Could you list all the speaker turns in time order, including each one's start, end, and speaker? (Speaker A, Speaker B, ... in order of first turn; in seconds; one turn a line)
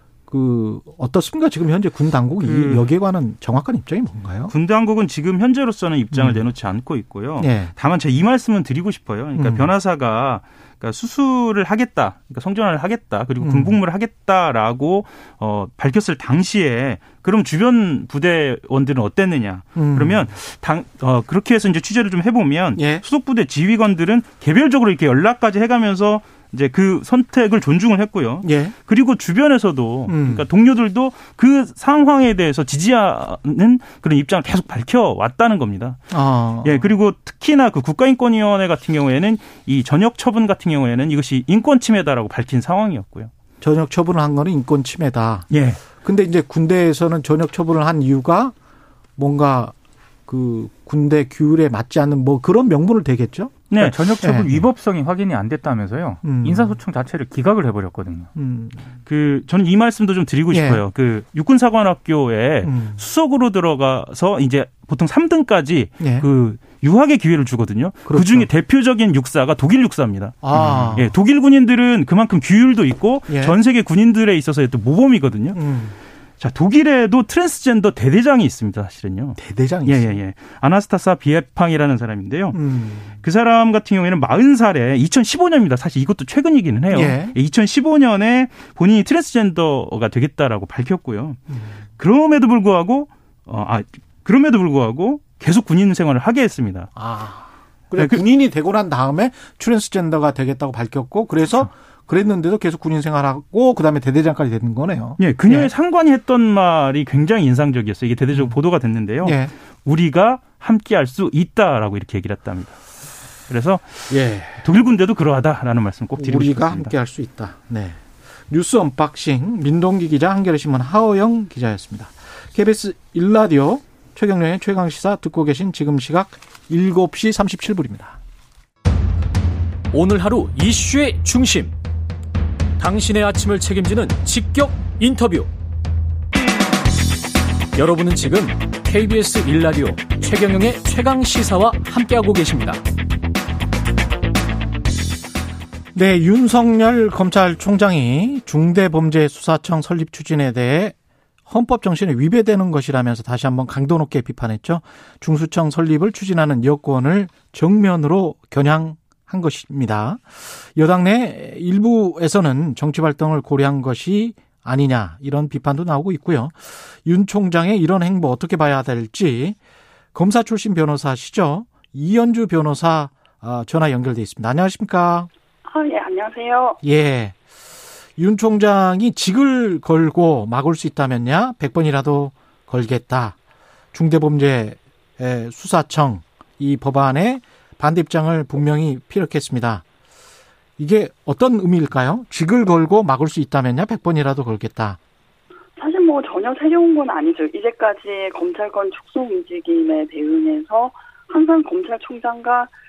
Speaker A: 0.3-4.5
Speaker B: 2.4-2.9
Speaker B: 4.5-36.1
Speaker A: 6.1-6.4
Speaker A: 7.4-7.7
Speaker A: 9.4-9.7
Speaker A: 13.4-13.8
Speaker A: 19.8-20.3
Speaker A: 22.8-23.0
Speaker A: 28.4-28.7
Speaker A: 30.1-30.5
Speaker A: 36.1-36.9
Speaker B: 36.6-43.3
Speaker A: 43.6-48.5
Speaker B: 45.5-45.8
Speaker A: 49.2-49.8
Speaker A: 50.3-53.6
Speaker B: 53.7-54.0
Speaker C: 53.8-58.3
Speaker A: 54.2-54.6
Speaker A: 56.2-56.8
Speaker A: 58.3-58.9
Speaker B: 59.0-75.6
Speaker A: 60.5-60.8
Speaker A: 62.6-63.0
Speaker A: 66.0-66.3
Speaker A: 68.0-68.5
Speaker A: 70.4-71.1
Speaker A: 73.3-73.6
Speaker A: 75.5-76.0
Speaker B: 76.4-82.6
Speaker A: 79.4-80.2
Speaker A: 82.5-83.2
Speaker B: 83.2-91.4
Speaker A: 86.9-87.4
Speaker A: 91.5-91.8
Speaker B: 92.0-96.9
Speaker A: 97.0-105.7
Speaker B: 97.9-98.2
Speaker B: 105.2-112.8
Speaker A: 109.2-109.5
Speaker B: 113.5-116.9
Speaker A: 114.1-114.7
Speaker A: 116.2-128.2
Speaker D: 129.9-131.8
Speaker D: 132.8-135.5
Speaker D: 137.7-142.8
Speaker A: 145.9-150.9
Speaker A: 151.5-169.6
Speaker A: 170.1-175.3
Speaker E: 175.7-176.8
Speaker A: 176.8-177.4
Speaker A: 178.2-183.4
Speaker A: 183.9-189.8
Speaker A: 190.8-195.0
Speaker E: 195.8-202.7